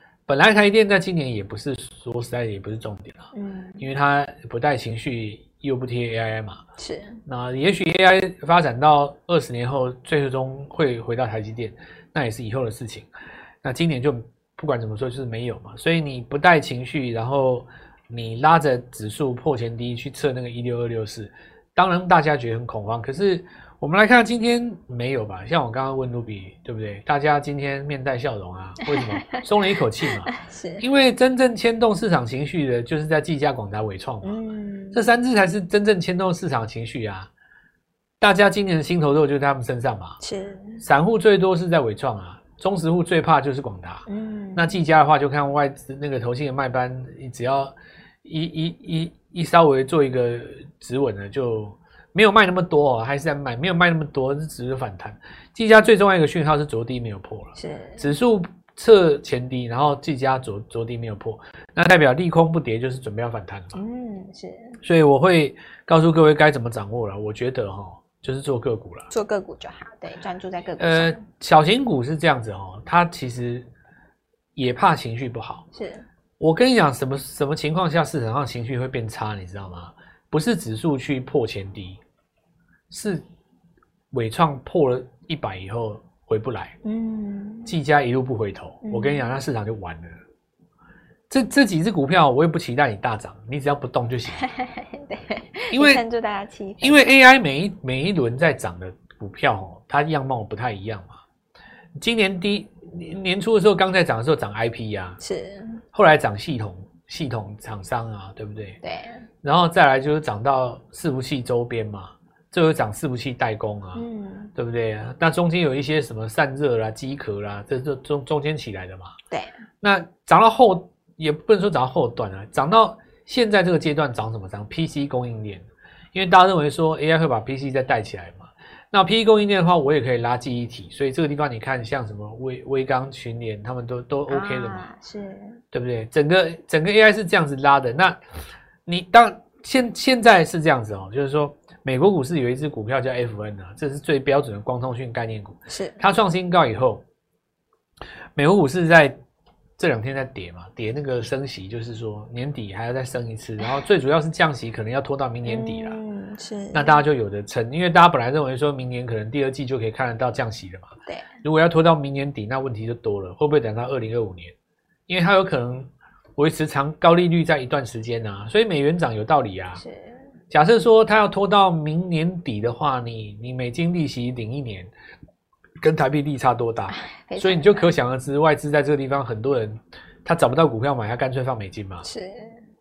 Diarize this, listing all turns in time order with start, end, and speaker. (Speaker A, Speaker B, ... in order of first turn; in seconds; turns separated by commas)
Speaker A: 0.3-6.6, Speaker B: 3.3-3.9, Speaker B: 6.8-7.2, Speaker A: 7.3-13.1, Speaker A: 13.6-34.4, Speaker B: 28.9-29.4, Speaker B: 30.3-30.9, Speaker B: 34.2-35.0, Speaker A: 34.9-37.3, Speaker A: 38.2-40.2, Speaker B: 40.2-40.8, Speaker A: 40.8-63.8, Speaker B: 44.1-44.8, Speaker B: 57.6-58.1, Speaker B: 63.8-64.8, Speaker A: 64.8-69.1, Speaker B: 69.1-71.2, Speaker A: 70.8-73.7, Speaker A: 74.6-75.7, Speaker B: 75.7-76.1, Speaker A: 76.4-82.0, Speaker A: 82.9-83.2, Speaker A: 84.1-86.8, Speaker B: 86.8-87.8, Speaker A: 87.7-90.2, Speaker B: 88.8-89.2, Speaker A: 91.3-94.5, Speaker B: 94.4-97.1, Speaker A: 95.7-96.0, Speaker A: 96.8-101.2, Speaker A: 102.0-105.2, Speaker B: 105.2-105.8, Speaker A: 105.9-108.8, Speaker B: 108.8-109.2, Speaker A: 109.4-119.1, Speaker B: 114.0-114.5, Speaker A: 119.8-134.9, Speaker B: 134.3-135.6, Speaker A: 135.7-138.2, Speaker A: 138.9-147.0, Speaker B: 145.7-146.0, Speaker A: 148.4-149.2, Speaker A: 149.8-156.0, Speaker B: 155.5-157.0, Speaker A: 156.7-160.9, Speaker A: 161.4-164.6, Speaker A: 165.1-169.8, Speaker B: 169.8-170.2, Speaker A: 170.5-174.9, Speaker A: 175.8-182.1, Speaker B: 176.9-177.9, Speaker B: 182.0-182.6